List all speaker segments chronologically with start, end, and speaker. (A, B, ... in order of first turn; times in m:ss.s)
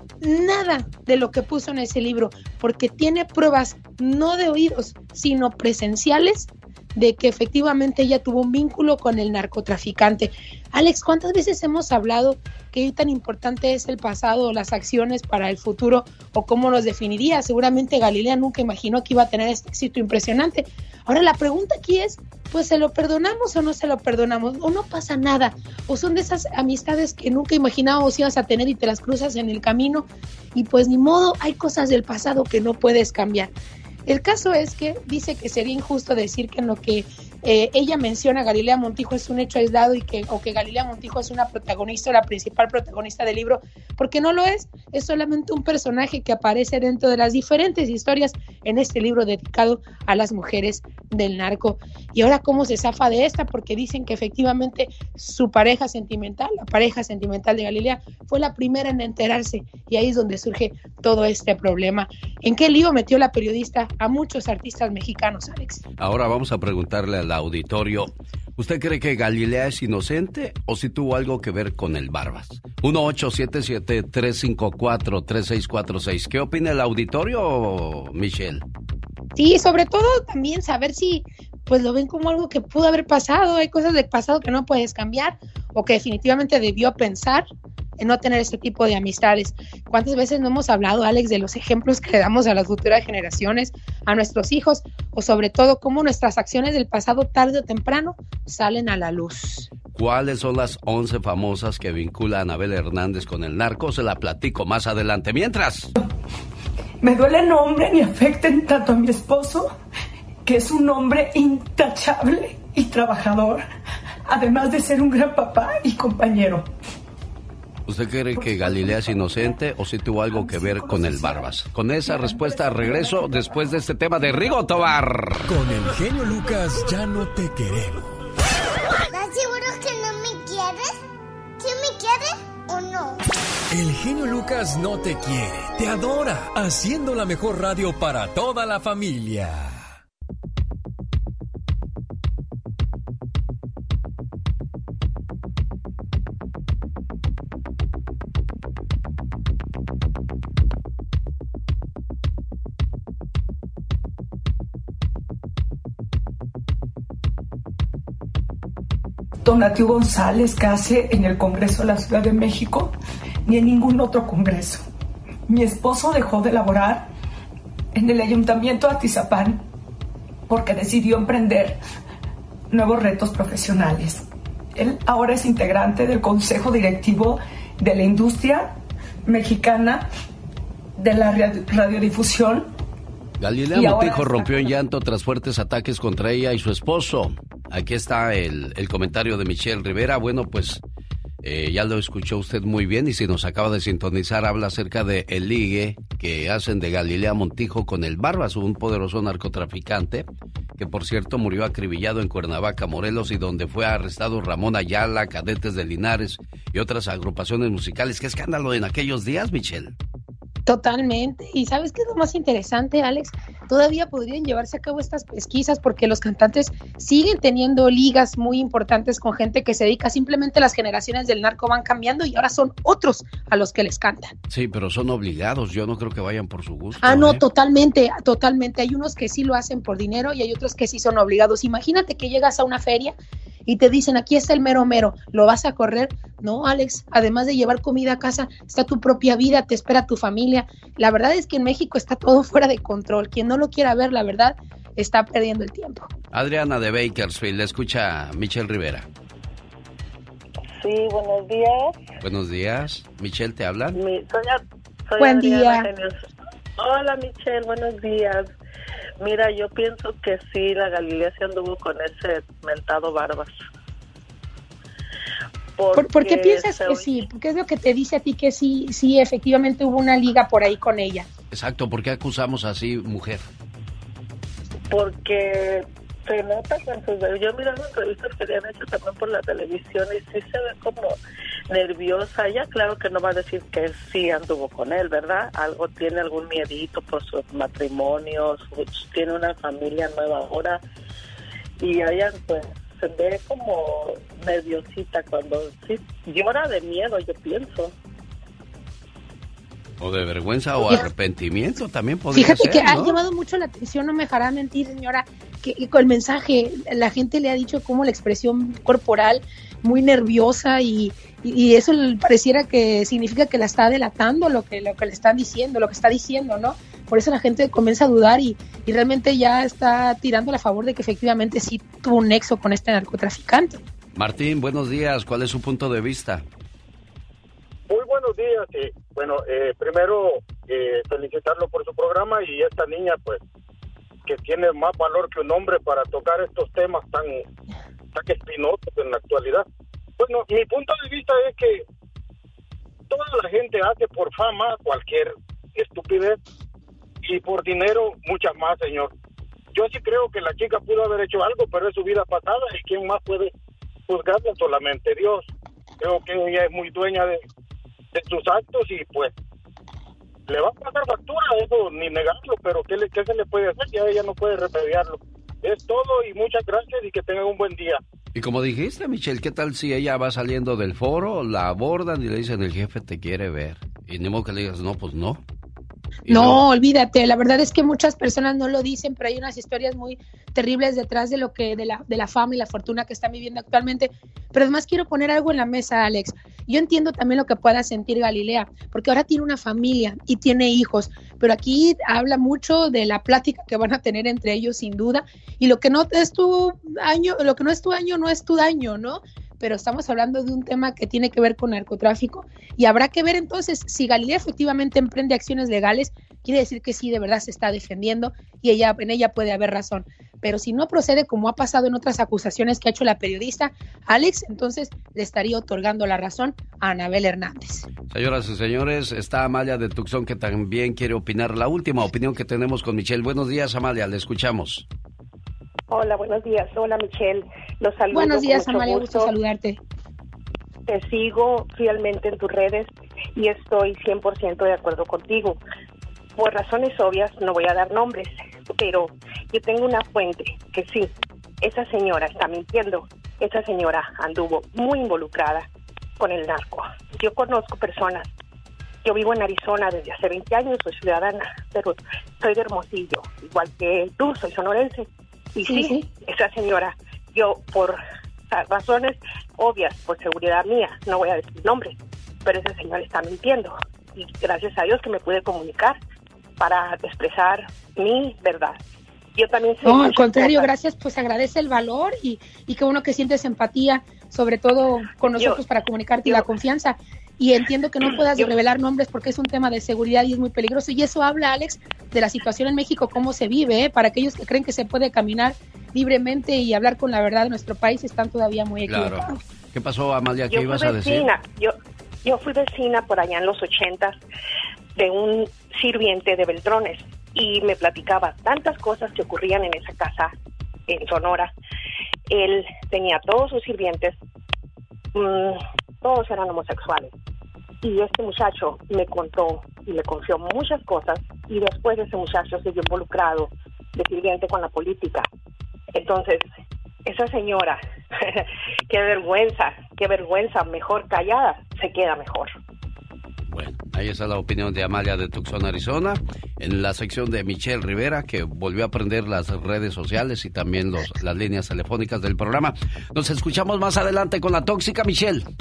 0:00.2-0:33.5 A
0:34.1-1:05.8 A
1:06.0-1:18.6 B
1:19.4-1:27.4 A
1:28.0-1:39.7 A
1:39.9-1:45.9 B
1:47.0-1:49.7 C
1:50.4-1:53.6 C
1:54.3-1:56.7 C
1:57.9-2:05.4 B
2:05.5-2:08.2 D
2:09.0-2:11.0 E
2:11.6-2:13.2 E
2:13.7-2:19.9 D
2:39.4-2:42.9 C
2:43.4-2:44.8 C
2:45.5-2:47.1 C
2:48.0-2:49.6 C
2:50.5-2:51.8 C
2:52.7-2:58.7 C
2:59.2-3:00.0 C
3:01.0-3:02.7 C
3:03.4-3:10.8 B
3:03.7-3:04.7 C
3:11.4-3:20.2 B
3:20.8-3:29.9 B
3:30.7-3:44.3 A
3:44.5-3:47.4 B
3:47.0-3:53.1 A
3:53.6-4:06.1 A
4:06.3-4:09.1 B
4:10.8-4:12.0 F
4:12.2-4:14.0 B
4:13.9-4:16.2 F
4:15.2-4:15.9 A
4:16.8-4:18.5 F
4:19.2-4:23.5 F
4:25.8-4:27.2 F
4:25.9-4:31.3 A
4:31.5-4:33.4 B
4:34.9-4:41.2 F
4:41.7-4:50.8 F
4:51.8-4:57.9 F
5:00.0-5:03.2 B
5:02.3-5:23.8 A
5:24.1-5:26.4 B
5:27.9-5:33.4 G
5:34.3-5:37.4 G
5:38.1-5:39.6 G
5:40.2-5:41.8 G
5:43.1-5:46.4 G
5:47.2-5:49.1 G
5:49.7-5:53.5 G
5:54.1-5:55.4 G
5:56.0-5:57.4 G
5:58.1-5:59.3 G
6:00.5-6:08.0 G
6:08.3-6:15.4 B
6:16.3-6:16.6 B
6:16.3-6:57.8 A
6:58.1-7:04.8 B
7:05.9-7:09.3 H
7:08.1-7:09.8 A
7:10.9-7:15.6 H
7:16.4-7:25.7 H
7:26.2-7:28.3 H
7:29.0-7:46.0 H
7:35.7-7:36.1 A
7:46.6-7:48.8 H
7:49.3-7:50.7 H
7:49.8-8:09.4 A
7:55.4-7:55.6 H
8:08.8-8:11.3 B
8:10.5-8:14.2 H
8:15.0-8:20.3 H
8:20.9-8:21.5 H
8:22.3-8:24.2 H
8:25.1-8:27.1 H
8:27.8-8:35.3 H
8:35.9-8:36.4 H
8:37.0-8:42.5 H
8:43.5-8:55.5 B